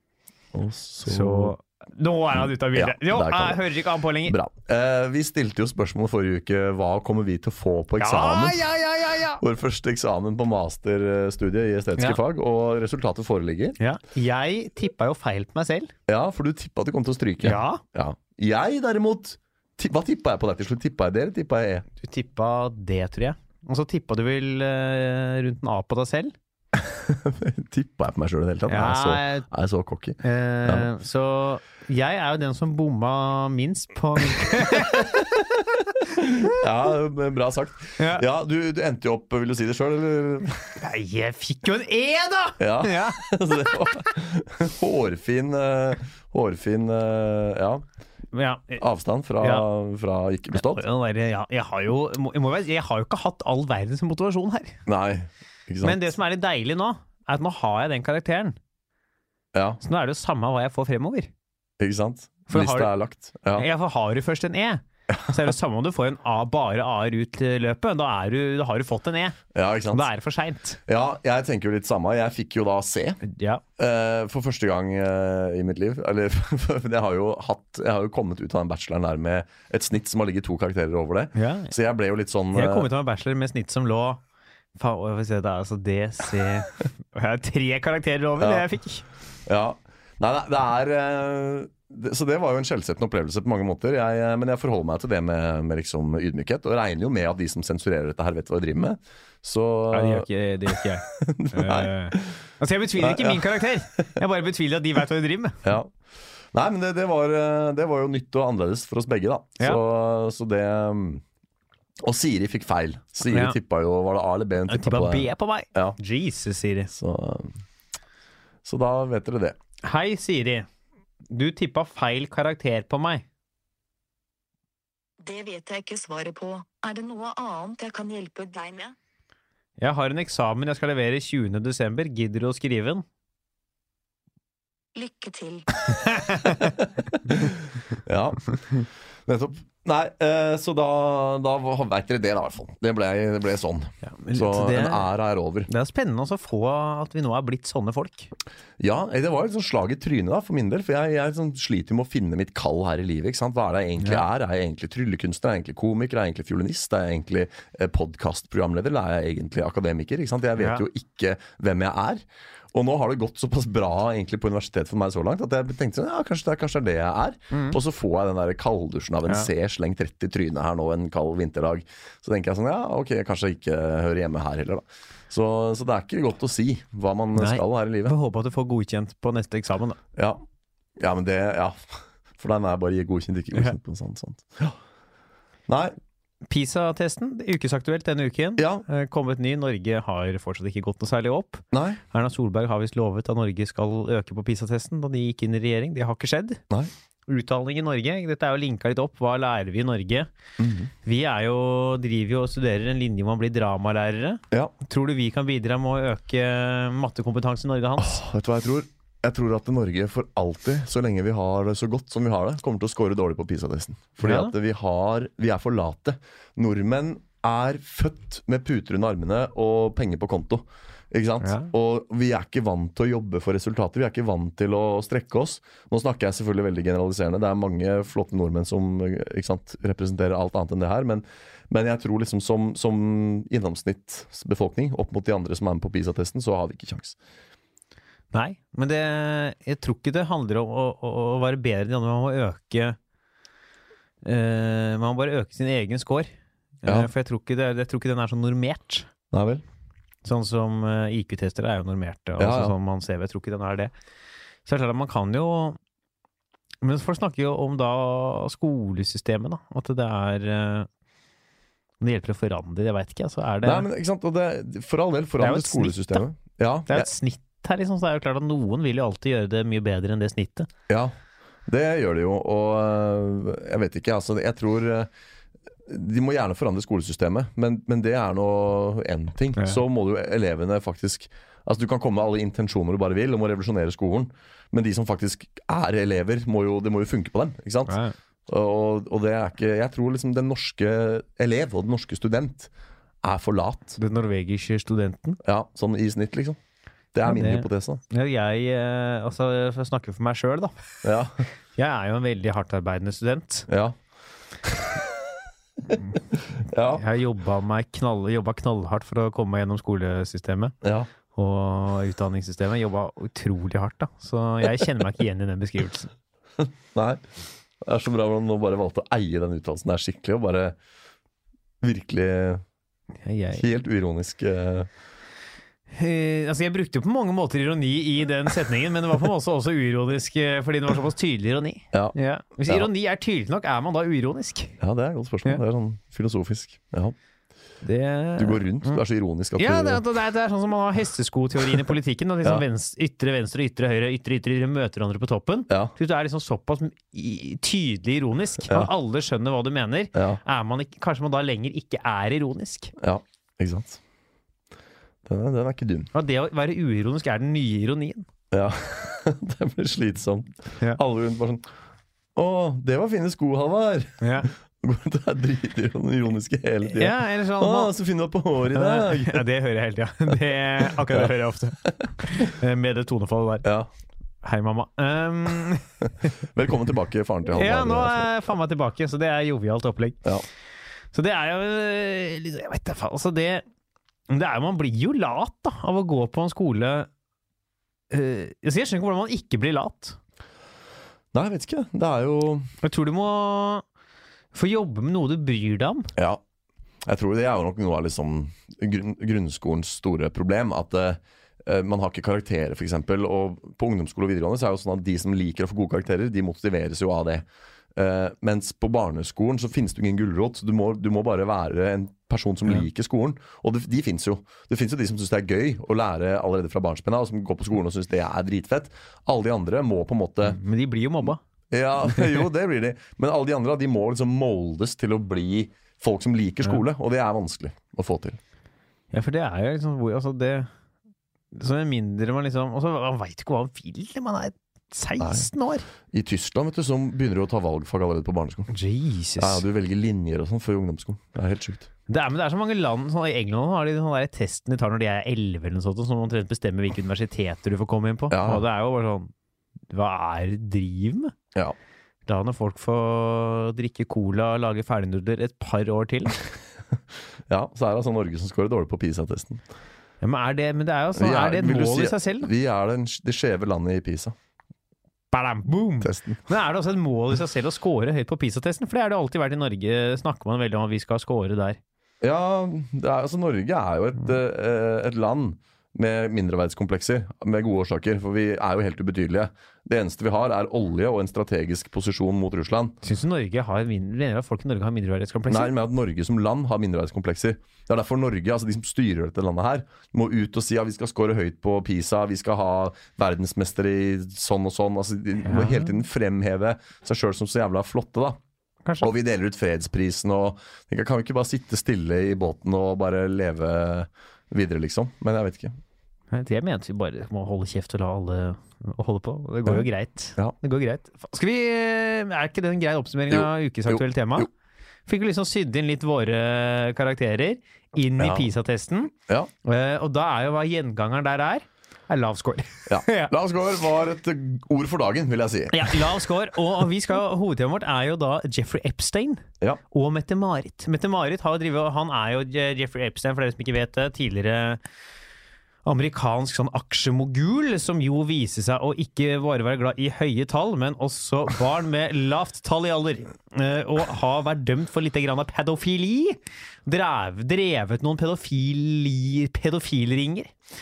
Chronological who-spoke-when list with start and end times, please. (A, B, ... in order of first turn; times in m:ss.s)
0:00.5-0:01.5 A
0:01.1-0:04.4 B
0:02.4-0:03.7 A
0:04.3-0:08.6 A
0:08.0-0:09.4 B
0:09.4-0:13.8 A
0:13.8-0:15.9 B
0:16.1-0:21.9 A
0:17.4-0:17.8 B
0:22.0-0:26.3 B
0:26.7-0:30.9 A
0:28.7-0:29.5 B
0:30.2-0:35.2 B
0:34.4-0:40.8 A
0:38.0-0:38.2 B
0:40.8-0:43.3 B
0:42.6-0:47.8 A
0:48.3-0:48.8 B
0:48.8-0:50.8 A
0:49.4-0:49.7 B
0:50.5-0:54.8 B
0:54.9-0:56.2 A
0:55.8-0:58.6 B
0:59.5-0:59.8 A
0:59.8-1:01.3 B
1:01.8-1:03.7 A
1:02.5-1:02.9 B
1:03.5-1:09.4 B
1:05.1-1:05.5 A
1:09.5-1:10.1 A
1:09.9-1:10.8 B
1:10.9-1:13.2 A
1:13.2-1:13.6 B
1:13.8-1:22.9 A
1:21.4-1:21.7 B
1:22.5-1:24.2 B
1:24.8-1:29.1 B
1:28.4-1:28.7 A
1:29.5-1:42.4 A
1:39.9-1:45.6 B
1:43.0-1:43.7 A
1:45.6-1:45.9 A
1:46.5-1:51.2 A
1:52.0-1:56.0 A
1:53.3-1:53.6 B
1:54.7-1:56.9 B
1:56.9-1:57.6 A
1:58.6-1:59.6 A
1:59.8-2:00.7 B
2:01.3-2:03.2 B
2:05.2-2:09.0 C
2:09.8-2:13.0 B
2:15.0-2:16.0 C
2:16.1-2:16.7 B
2:17.2-2:25.7 A
2:24.0-2:25.1 B
2:25.7-2:28.3 B
2:28.8-2:58.2 A
2:34.0-2:34.2 B
2:40.6-2:40.8 B
2:47.5-2:47.8 B
2:57.4-3:00.0 B
3:01.0-3:04.8 A
3:05.7-3:06.0 A
3:06.5-3:16.6 B
3:08.6-3:08.8 A
3:11.7-3:12.0 A
3:17.3-3:20.3 B
3:20.6-3:20.9 A
3:21.0-3:28.2 B
3:28.0-3:57.2 A
3:34.2-3:34.5 B
3:41.4-3:41.7 B
3:58.3-4:03.0 B
4:04.2-4:06.3 B
4:06.8-4:09.1 B
4:09.3-4:09.6 A
4:10.2-4:13.9 B
4:12.4-4:12.7 A
4:14.6-4:15.8 B
4:16.8-4:20.9 B
4:22.0-4:23.9 B
4:23.6-4:27.1 A
4:25.4-4:26.2 B
4:26.9-4:30.7 B
4:30.9-4:31.1 A
4:31.7-4:35.1 A
4:35.9-4:48.0 A
4:39.6-4:39.8 B
4:47.9-4:48.2 B
4:48.5-4:52.7 A
4:53.2-4:54.0 A
4:54.0-4:55.4 B
4:55.4-4:56.6 A
4:57.1-4:58.0 A
4:57.3-5:00.8 B
5:01.0-5:01.4 A
5:01.8-5:03.7 B
5:03.7-5:04.0 A
5:04.7-5:05.2 A
5:06.6-5:07.0 A
5:06.9-5:10.8 B
5:10.8-5:11.1 A
5:11.4-5:16.1 B
5:16.6-5:17.2 A
5:17.8-5:20.8 A
5:21.8-5:22.6 A
5:23.2-5:23.6 B
5:23.5-5:24.9 A
5:25.9-5:34.8 B
5:34.8-5:37.2 A
5:37.8-5:39.0 B
5:38.4-5:40.0 A
5:39.6-5:52.9 B
5:50.1-5:50.4 A
5:53.0-5:54.0 A
5:55.3-5:56.1 A
5:56.1-5:58.3 B
5:58.5-6:01.6 A
6:02.4-6:09.4 A
6:04.2-6:04.5 B
6:06.9-6:07.9 B
6:08.7-6:13.7 B
6:13.6-6:13.9 A
6:14.4-6:16.3 B
6:16.4-6:18.3 A
6:17.5-6:20.2 B
6:21.1-6:23.6 B
6:24.3-6:27.1 B
6:28.1-6:30.2 B
6:31.3-6:32.7 A
6:32.8-6:33.8 B
6:34.5-6:36.1 B
6:36.2-6:36.4 A
6:37.0-7:00.6 A
7:00.4-7:01.4 B
7:01.7-7:08.4 A
7:02.0-7:02.5 B
7:09.1-7:10.7 B
7:11.5-7:15.9 B
7:15.2-7:15.5 A
7:16.1-7:18.7 A
7:18.7-7:19.6 B
7:19.4-7:21.9 A
7:22.1-7:29.3 B
7:28.3-7:28.6 A
7:29.9-7:31.3 B
7:32.3-7:36.4 B
7:37.5-7:39.6 A
7:40.2-7:42.5 B
7:41.2-7:44.4 A
7:45.3-7:51.8 B
7:46.0-7:46.4 A
7:52.2-8:03.0 A
8:03.0-8:05.7 B
8:05.5-8:18.4 A
8:15.5-8:15.9 B
8:19.0-8:25.8 A
8:26.3-8:34.5 B
8:33.3-8:34.5 A
8:35.1-8:43.3 B
8:38.2-8:38.5 A
8:42.9-8:46.1 A
8:45.7-8:54.8 B
8:55.8-9:10.5 B